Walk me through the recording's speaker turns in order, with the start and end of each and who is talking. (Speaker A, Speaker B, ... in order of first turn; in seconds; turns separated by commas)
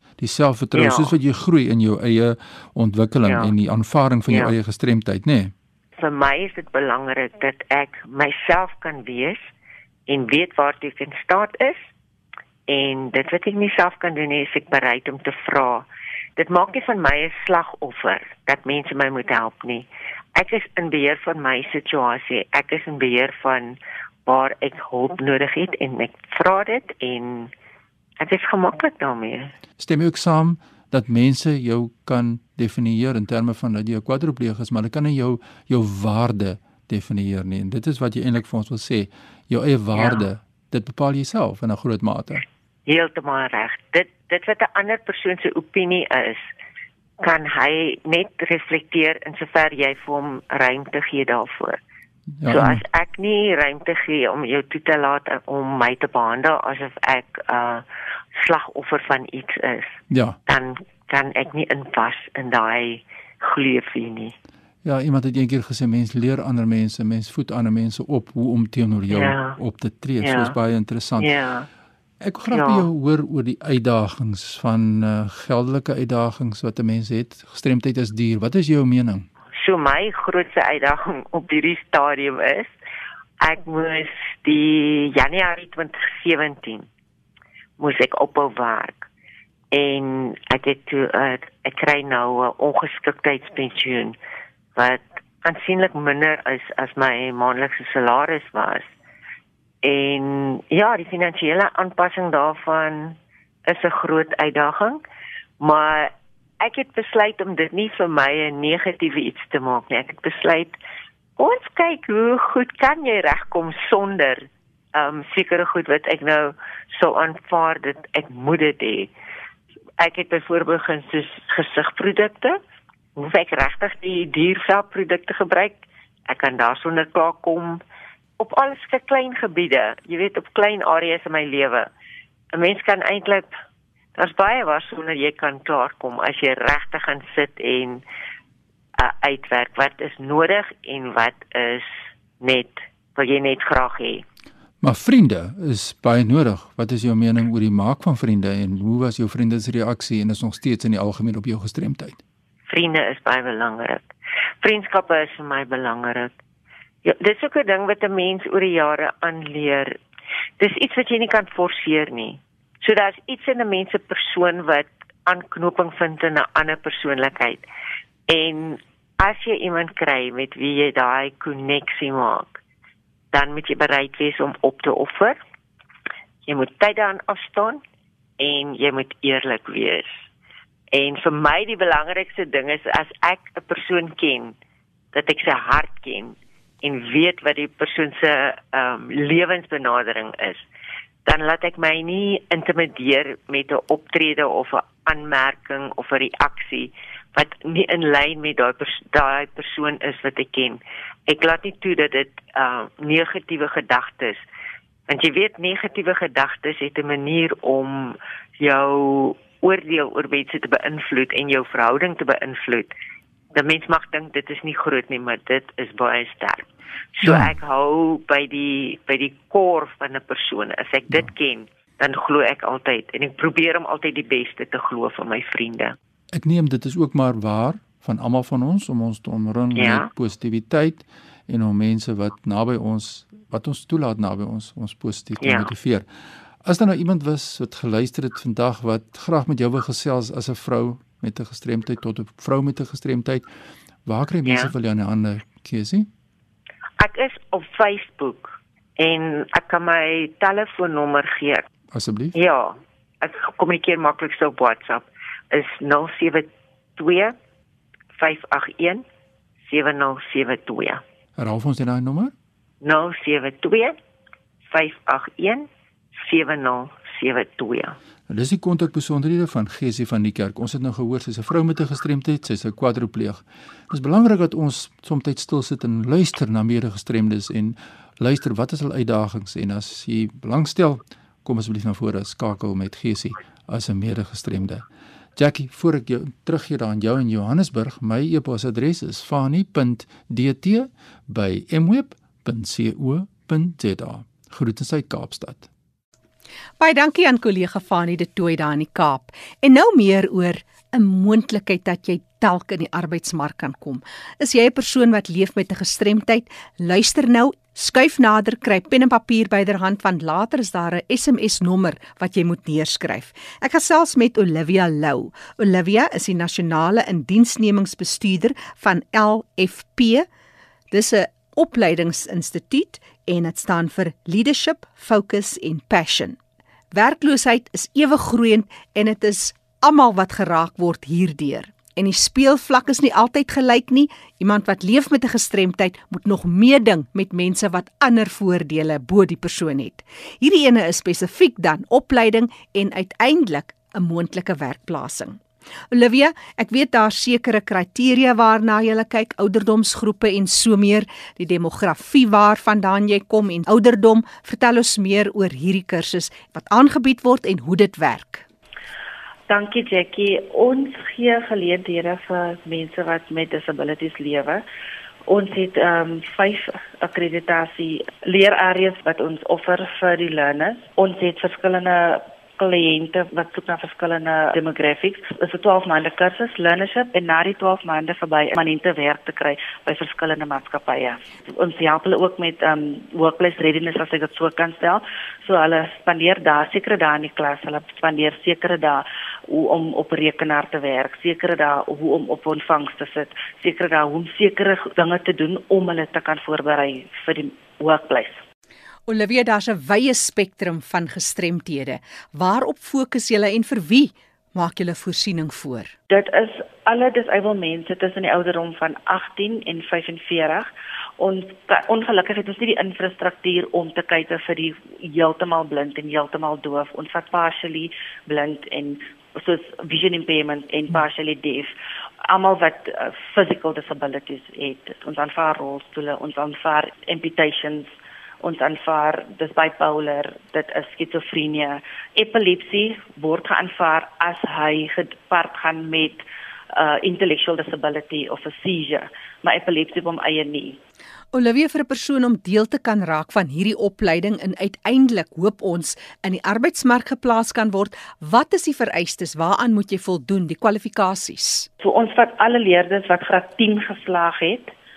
Speaker A: 0.2-5.5, Speaker B: 0.7-1.1, Speaker B: 3.3-3.5, Speaker B: 6.0-9.4, Speaker B: 10.1-11.8, Speaker B: 12.7-27.5, Speaker B: 28.2-29.5, Speaker A: 29.8-42.4, Speaker B: 40.0-40.2, Speaker B: 42.9-46.5, Speaker B: 47.2-51.8, Speaker A: 52.4-52.8, Speaker B: 52.5-64.3, Speaker A: 60.1-60.4, Speaker A: 64.8-71.3, Speaker B: 69.1-69.6, Speaker B: 70.2-70.5, Speaker B: 71.2-71.7, Speaker A: 72.2-79.3, Speaker B: 72.5-72.9, Speaker B: 79.5-82.7, Speaker B: 83.4-86.9, Speaker B: 87.8-89.1, Speaker B: 89.7-94.2, Speaker B: 94.8-98.9, Speaker B: 99.8-105.0, Speaker B: 105.6-110.8, Speaker B: 111.4-119.1, Speaker B: 120.0-122.6, Speaker B: 123.2-127.8, Speaker B: 128.4-131.9, Speaker B: 132.5-133.5, Speaker B: 134.2-138.0, Speaker B: 139.0-144.2, Speaker A: 144.8-152.2, Speaker B: 152.7-154.0, Speaker B: 154.6-156.3, Speaker B: 157.0-160.0, Speaker B: 160.6-167.6, Speaker B: 168.3-172.6, Speaker B: 173.3-175.4, Speaker B: 176.4-177.8, Speaker B: 178.4-180.2, Speaker B: 180.9-184.6, Speaker B: 185.1-190.6, Speaker B: 191.2-204.4, Speaker B: 205.1-212.9, Speaker B: 213.5-225.9, Speaker A: 217.2-217.5, Speaker A: 226.3-236.1, Speaker B: 229.8-230.1, Speaker B: 235.4-235.7, Speaker A: 236.6-243.5, Speaker A: 244.1-246.1, Speaker B: 244.5-244.7, Speaker B: 247.0-251.7, Speaker A: 251.9-252.4, Speaker B: 252.3-257.4, Speaker B: 258.1-259.0, Speaker B: 259.6-261.0, Speaker A: 261.4-262.3, Speaker B: 262.8-263.9, Speaker B: 264.7-268.0, Speaker A: 268.3-284.8, Speaker A: 285.4-295.7, Speaker C: 296.8-320.3, Speaker C: 320.9-326.4, Speaker C: 326.9-358.4, Speaker D: 359.5-364.6, Speaker D: 365.3-398.4, Speaker C: 399.1-405.9, Speaker D: 406.1-421.7, Speaker D: 422.3-427.9, Speaker D: 428.4-440.8, Speaker C: 441.3-451.7, Speaker D: 451.8-454.7